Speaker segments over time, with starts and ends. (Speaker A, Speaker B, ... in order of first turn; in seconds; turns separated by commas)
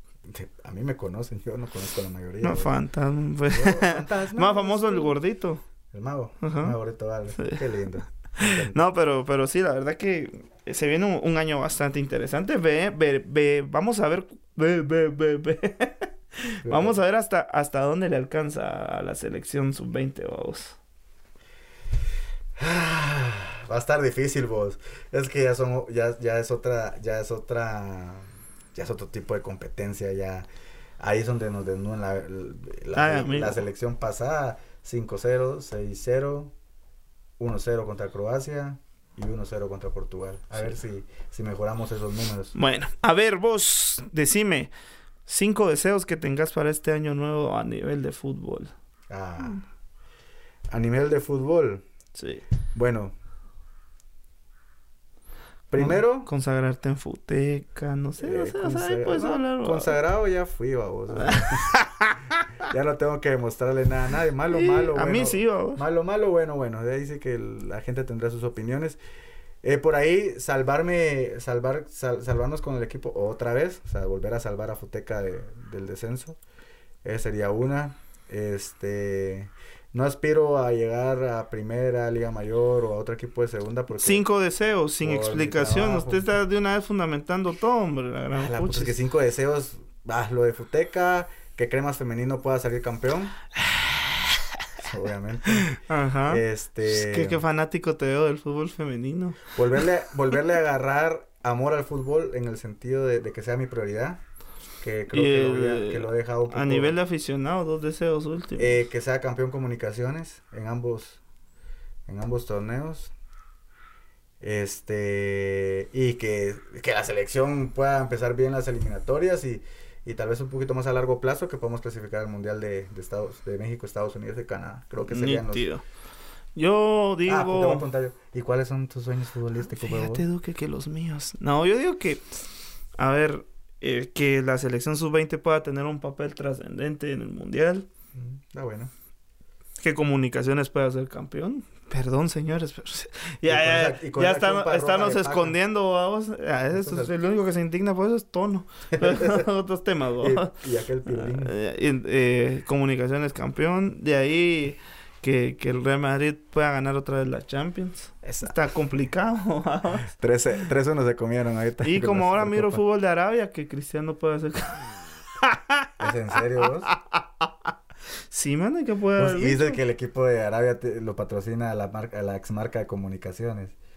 Speaker A: 0.3-2.7, Speaker B: 2.4-5.6, Speaker A: 3.5-5.2, Speaker A: 5.9-8.8, Speaker B: 6.4-6.7, Speaker B: 8.4-20.8, Speaker A: 16.6-17.0, Speaker A: 22.6-30.4, Speaker A: 31.0-36.5, Speaker B: 32.9-33.6, Speaker A: 37.4-42.5, Speaker B: 42.5-44.7, Speaker B: 45.3-48.7, Speaker A: 49.1-49.6, Speaker A: 50.7-51.8, Speaker B: 52.1-52.4, Speaker A: 52.7-53.1, Speaker A: 55.7-56.3, Speaker B: 55.8-59.9, Speaker A: 58.2-61.7, Speaker B: 61.1-62.4, Speaker A: 62.6-69.0, Speaker B: 64.5-65.8, Speaker A: 69.6-76.4, Speaker A: 77.0-84.2, Speaker B: 83.9-88.9, Speaker A: 85.0-86.3, Speaker A: 88.4-93.3, Speaker A: 94.8-97.4, Speaker B: 95.7-99.5, Speaker A: 99.5-104.2, Speaker A: 104.8-107.0, Speaker B: 105.1-108.8, Speaker A: 108.6-111.2, Speaker A: 112.1-113.1, Speaker A: 114.4-125.7, Speaker B: 125.1-125.8, Speaker B: 126.5-127.8, Speaker A: 127.3-130.2, Speaker B: 129.8-132.2, Speaker B: 133.0-137.9, Speaker A: 138.1-138.9, Speaker B: 139.8-150.5, Speaker A: 143.4-145.5, Speaker A: 146.7-147.1, Speaker A: 148.9-149.4, Speaker A: 150.2-151.5, Speaker B: 151.1-160.1, Speaker A: 158.2-158.5, Speaker A: 160.0-162.8, Speaker B: 161.8-167.5, Speaker A: 166.0-166.9, Speaker B: 168.3-169.8, Speaker A: 169.2-173.7